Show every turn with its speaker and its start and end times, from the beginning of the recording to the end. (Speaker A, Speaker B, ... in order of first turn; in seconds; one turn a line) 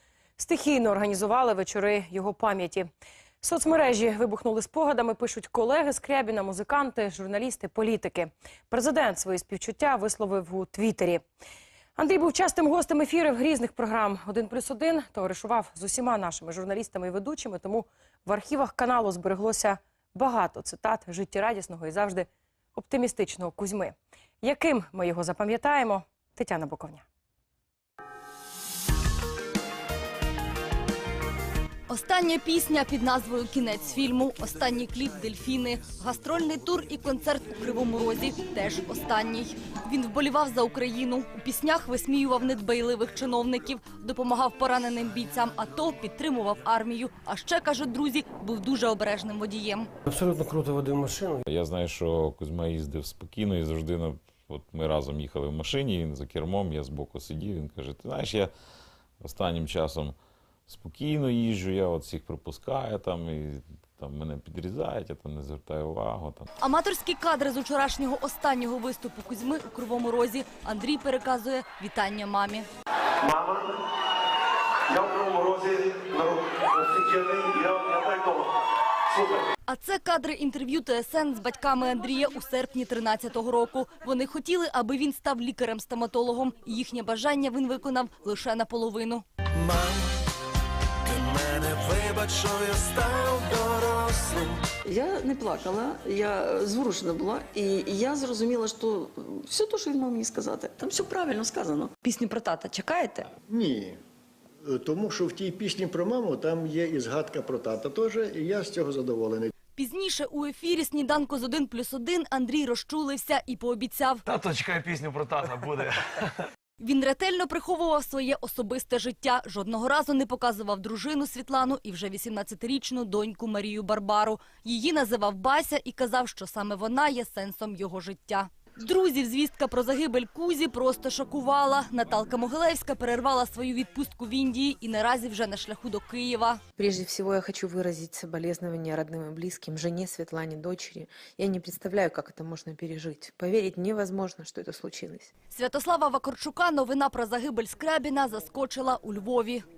Speaker A: 0.4-2.9
Speaker A: 3.4-11.2
Speaker A: 12.0-27.0
Speaker B: 31.9-49.9
Speaker C: 51.5-58.5
Speaker C: 59.2-60.1
Speaker C: 60.7-66.5
Speaker B: 66.6-72.7
Speaker D: 73.3-73.7
Speaker E: 73.3-73.6
Speaker D: 74.9-78.5
Speaker E: 75.0-76.4
Speaker E: 76.9-77.8
Speaker D: 79.1-79.4
Speaker B: 79.7-89.2
Speaker F: 89.5-90.1
Speaker F: 91.0-94.6
Speaker G: 94.8-103.3
Speaker H: 103.5-104.0
Speaker H: 104.6-109.5
Speaker B: 109.8-114.2
Speaker E: 114.2-116.0
Speaker B: 116.8-136.6
Speaker I: 136.8-145.3
Speaker B: 145.5-149.6